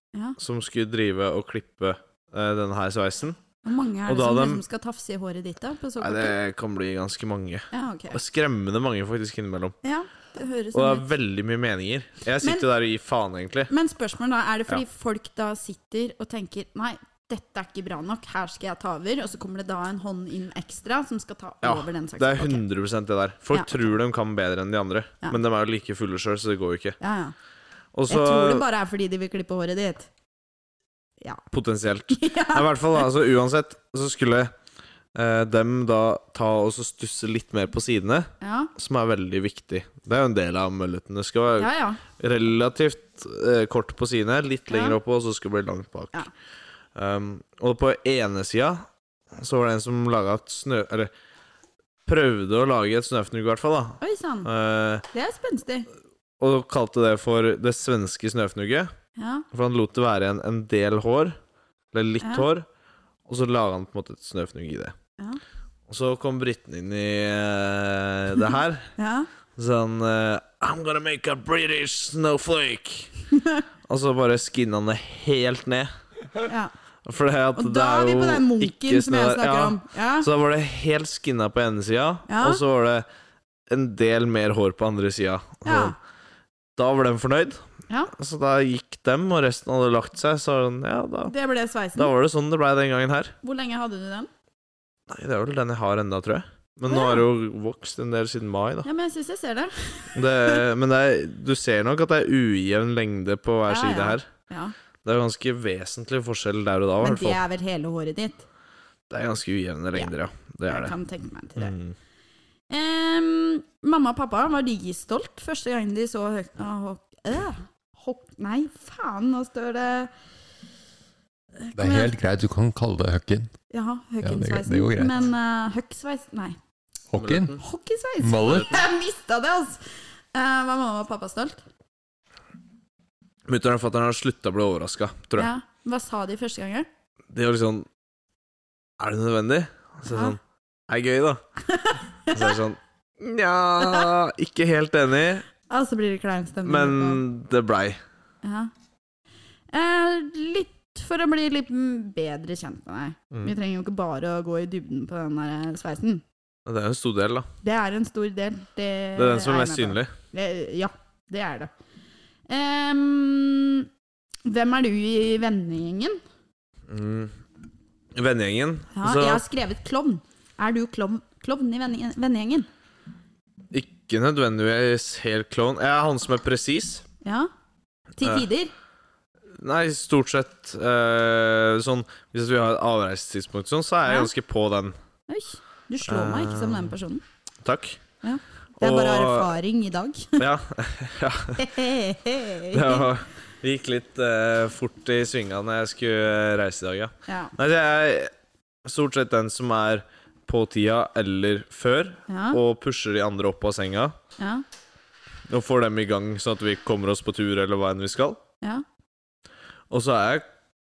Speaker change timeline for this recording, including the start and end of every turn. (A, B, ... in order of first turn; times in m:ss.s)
0:00.4-0:03.4 A
0:03.6-0:06.4 B
0:04.1-0:04.6 A
0:06.0-0:09.8 A
0:07.7-0:08.2 B
0:09.8-0:11.1 B
0:10.7-0:13.7 A
0:12.4-0:12.7 B
0:13.7-0:22.6 B
0:21.6-0:27.0 A
0:23.5-0:23.8 B
0:27.0-0:27.3 B
0:27.9-0:28.6 A
0:28.1-0:30.1 B
0:31.5-0:34.5 A
0:32.1-0:33.0 B
0:35.2-0:46.3 A
0:38.4-0:38.7 B
0:41.6-0:42.0 B
0:44.7-0:45.0 B
0:47.0-0:51.1 A
0:52.1-0:55.1 A
0:54.0-0:54.5 B
0:55.1-0:55.9 B
0:56.4-0:58.9 A
0:59.2-0:59.5 B
0:59.5-1:01.4 A
1:01.9-1:02.6 A
1:02.2-1:02.5 B
1:03.3-1:05.0 A
1:05.9-1:09.0 A
1:09.0-1:09.3 B
1:09.6-1:13.1 A
1:13.3-1:13.6 B
1:13.9-1:15.9 A
1:16.5-1:16.7 B
1:17.0-1:23.1 A
1:17.5-1:20.3 B
1:22.3-1:22.6 B
1:23.7-1:26.0 A
1:25.6-1:26.0 B
1:26.8-1:31.3 A
1:31.3-1:32.1 B
1:32.0-1:33.4 A
1:33.4-1:34.3 B
1:35.1-1:38.9 A
1:36.9-1:37.3 B
1:38.8-1:40.6 B
1:40.2-1:44.3 A
1:43.7-1:44.7 B
1:45.0-1:47.4 A
1:47.0-1:48.5 B
1:49.1-1:51.0 A
1:50.7-1:51.8 B
1:51.6-1:52.0 A
1:52.7-2:00.1 B
2:01.6-2:02.1 B
2:01.8-2:03.5 C
2:03.7-2:06.6 B
2:04.2-2:05.2 C
2:07.1-2:07.5 C
2:07.2-2:07.6 A
2:07.6-2:11.6 B
2:08.2-2:08.7 C
2:08.4-2:08.7 A
2:13.5-2:15.5 A
2:15.4-2:16.9 B
2:17.3-2:17.9 A
2:19.0-2:20.4 A
2:20.1-2:20.4 B
2:20.9-2:21.4 A
2:21.6-2:22.6 B
2:22.3-2:25.4 A
2:23.8-2:24.1 B
2:25.7-2:27.2 B
2:26.7-2:28.0 A
2:28.4-2:28.7 B
2:29.7-2:36.2 B
2:36.7-2:37.5 A
2:37.6-2:41.7 B
2:39.2-2:40.1 A
2:42.5-2:43.9 B
2:44.4-2:46.2 B
2:46.9-2:47.3 A
2:48.2-2:49.4 A
2:49.0-2:52.7 B
2:53.7-2:57.0 A
2:57.2-2:57.5 B
2:58.2-2:58.7 B
2:59.6-3:05.0 A
3:04.1-3:04.3 B
3:05.3-3:07.2 B
3:06.0-3:07.0 A
3:07.6-3:08.0 A
3:08.2-3:10.4 B
3:08.8-3:09.5 A
3:10.4-3:11.8 A
3:11.6-3:13.1 B
3:12.7-3:18.3 A
3:17.3-3:17.5 B
3:18.8-3:24.2 A
3:22.3-3:22.6 B
3:24.4-3:24.6 B
3:25.5-3:28.4 A
3:29.9-3:30.5 A